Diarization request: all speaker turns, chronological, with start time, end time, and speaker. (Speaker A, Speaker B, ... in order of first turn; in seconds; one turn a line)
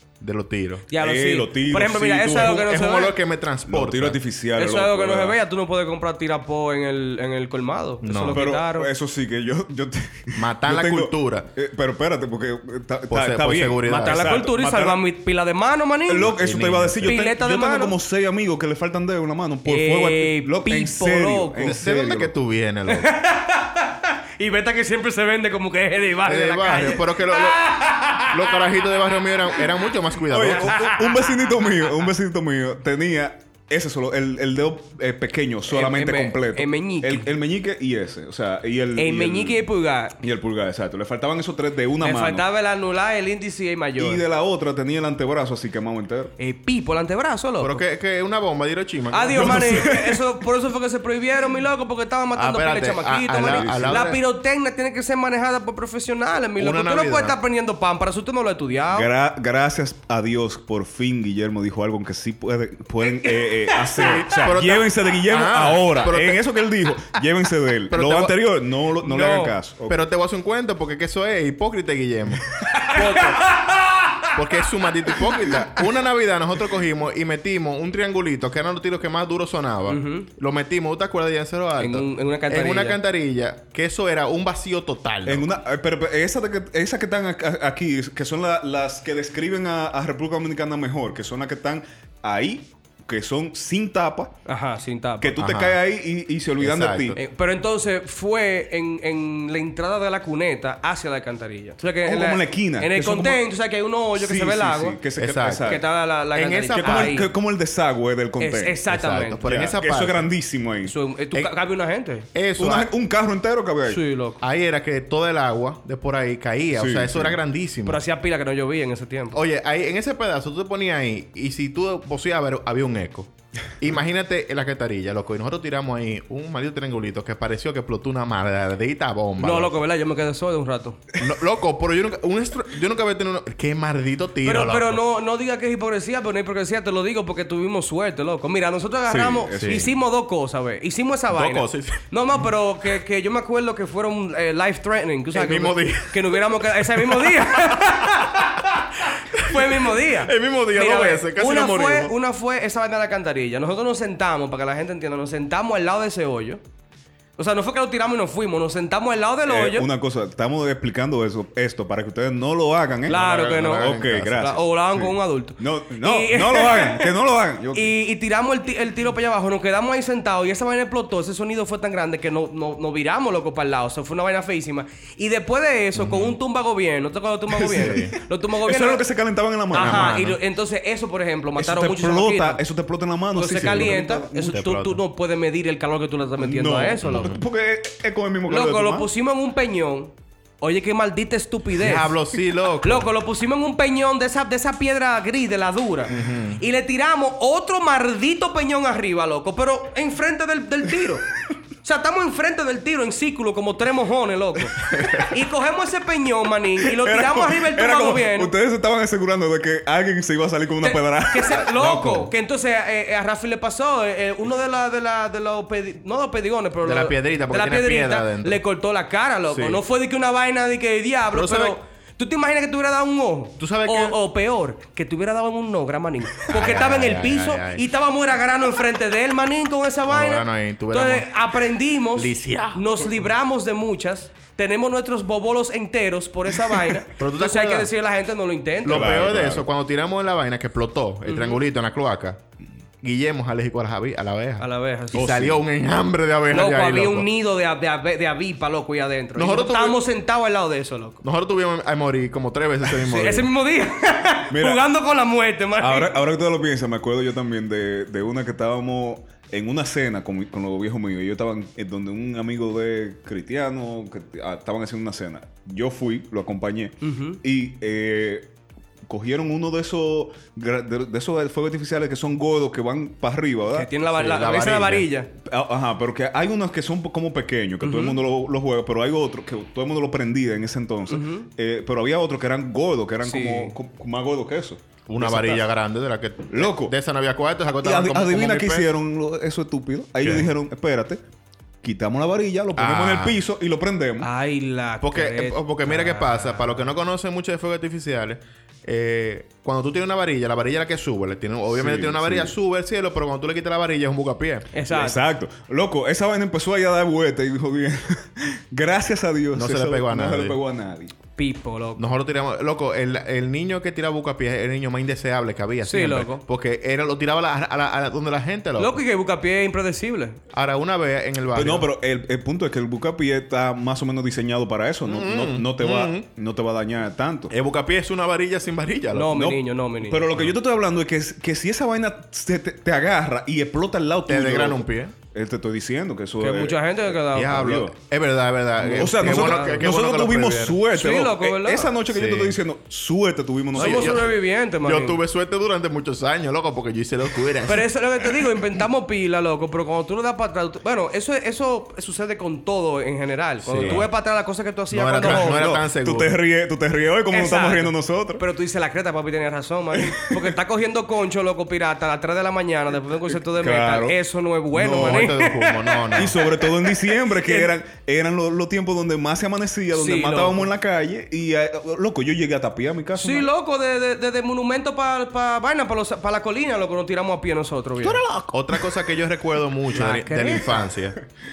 Speaker A: 0.2-0.9
Speaker B: 0.9-3.2
Speaker C: 1.0-2.6
Speaker A: 2.3-4.2
Speaker C: 3.7-5.4
Speaker B: 4.6-8.9
Speaker A: 8.0-8.4
Speaker C: 8.3-15.0
Speaker A: 10.3-11.5
Speaker A: 13.1-14.3
Speaker B: 13.9-16.4
Speaker C: 16.1-22.3
Speaker A: 16.3-17.2
Speaker B: 17.0-17.9
Speaker B: 19.7-21.8
Speaker A: 21.7-23.1
Speaker B: 22.9-28.9
Speaker A: 26.2-30.8
Speaker C: 30.3-39.7
Speaker B: 30.6-31.9
Speaker B: 35.7-37.3
Speaker B: 39.0-40.2
Speaker C: 40.2-42.5
Speaker B: 42.0-44.2
Speaker C: 44.0-46.3
Speaker B: 46.4-47.8
Speaker A: 47.6-49.9
Speaker B: 49.1-59.1
Speaker C: 49.3-50.2
Speaker A: 52.3-54.2
Speaker C: 53.5-54.1
Speaker A: 56.6-57.4
Speaker C: 58.9-70.0
Speaker B: 63.0-64.5
Speaker A: 64.0-66.4
Speaker A: 67.9-68.3
Speaker B: 69.0-69.5
Speaker A: 69.9-73.3
Speaker B: 72.8-74.3
Speaker A: 74.3-85.5
Speaker B: 79.9-80.3
Speaker B: 81.8-83.0
Speaker C: 85.3-94.3
Speaker B: 94.5-95.3
Speaker C: 95.2-97.2
Speaker A: 95.4-95.8
Speaker A: 96.6-97.2
Speaker B: 97.2-105.0
Speaker C: 102.0-103.4
Speaker C: 104.2-105.8
Speaker A: 105.2-105.8
Speaker B: 105.6-107.3
Speaker A: 106.3-107.2
Speaker C: 106.8-108.8
Speaker B: 108.4-109.4
Speaker A: 108.9-110.3
Speaker C: 109.4-111.0
Speaker B: 110.8-112.3
Speaker A: 112.3-112.9
Speaker C: 112.6-114.0
Speaker B: 113.9-114.4
Speaker A: 114.4-118.0
Speaker C: 116.8-117.4
Speaker B: 117.8-119.4
Speaker A: 119.3-129.8
Speaker B: 129.4-131.0
Speaker A: 131.2-135.0
Speaker B: 134.4-148.7
Speaker C: 139.1-139.9
Speaker A: 139.5-139.9
Speaker A: 141.3-142.0
Speaker A: 145.3-152.1
Speaker B: 149.4-156.6
Speaker B: 157.4-159.9
Speaker C: 159.5-167.9
Speaker B: 163.1-167.1
Speaker A: 163.1-164.6
Speaker B: 167.7-179.1
Speaker A: 176.0-176.3
Speaker C: 177.6-180.2
Speaker A: 177.7-178.2
Speaker B: 179.7-182.6
Speaker A: 179.7-180.4
Speaker C: 181.6-184.6
Speaker B: 183.3-187.4
Speaker A: 183.6-185.0
Speaker C: 186.4-189.1
Speaker A: 187.0-187.4
Speaker B: 188.5-192.2
Speaker A: 191.8-193.1
Speaker B: 192.8-201.3
Speaker A: 196.1-196.6
Speaker B: 201.8-208.5
Speaker A: 204.9-205.3
Speaker C: 206.8-211.8
Speaker B: 210.8-239.2
Speaker A: 211.7-212.3
Speaker A: 216.8-218.6
Speaker A: 219.5-219.8
Speaker A: 221.3-221.8
Speaker A: 223.6-224.2
Speaker A: 226.5-227.8
Speaker A: 230.1-231.3
Speaker A: 232.1-233.1
Speaker A: 237.2-237.9
Speaker A: 238.8-242.4
Speaker C: 238.9-239.7
Speaker B: 241.3-241.6
Speaker A: 243.0-247.3
Speaker B: 244.6-245.4
Speaker C: 245.1-245.6
Speaker B: 246.5-251.2
Speaker A: 249.3-250.0
Speaker A: 251.2-253.5
Speaker B: 253.0-256.1
Speaker C: 254.5-254.8
Speaker C: 255.8-268.5
Speaker B: 267.0-267.4
Speaker C: 269.1-273.9
Speaker B: 273.7-275.3
Speaker A: 274.1-275.1
Speaker C: 275.4-285.6
Speaker B: 277.8-278.2
Speaker B: 281.1-281.5
Speaker B: 283.2-283.7
Speaker A: 285.1-288.9
Speaker C: 286.5-286.9
Speaker C: 287.8-291.2
Speaker A: 290.2-290.5
Speaker C: 291.8-294.3
Speaker A: 292.8-293.4
Speaker B: 294.2-296.7
Speaker A: 295.0-304.7
Speaker C: 301.7-302.5
Speaker B: 304.7-305.2
Speaker C: 304.9-311.1
Speaker A: 309.6-310.6
Speaker B: 311.4-312.1
Speaker A: 312.0-319.0
Speaker B: 315.9-316.4
Speaker B: 318.8-320.4
Speaker A: 320.5-321.9
Speaker C: 321.5-327.5
Speaker A: 325.1-326.3
Speaker A: 327.5-329.4
Speaker B: 329.1-330.3
Speaker C: 329.3-337.9
Speaker A: 334.3-335.1
Speaker B: 336.4-337.7
Speaker A: 337.3-340.8
Speaker B: 338.8-339.8
Speaker C: 338.9-344.3
Speaker B: 340.9-341.9
Speaker A: 342.1-342.6
Speaker B: 343.8-345.2
Speaker A: 343.8-347.9
Speaker B: 347.6-355.7
Speaker A: 353.6-354.1
Speaker C: 353.8-354.0
Speaker A: 354.9-356.4
Speaker C: 355.2-358.4
Speaker B: 357.3-367.7
Speaker C: 359.9-360.6
Speaker C: 363.3-364.2
Speaker C: 364.7-365.3
Speaker A: 364.8-366.4
Speaker C: 366.1-373.5
Speaker B: 369.9-370.7
Speaker B: 373.2-378.2
Speaker C: 378.0-378.5
Speaker A: 378.5-381.2
Speaker B: 379.9-380.9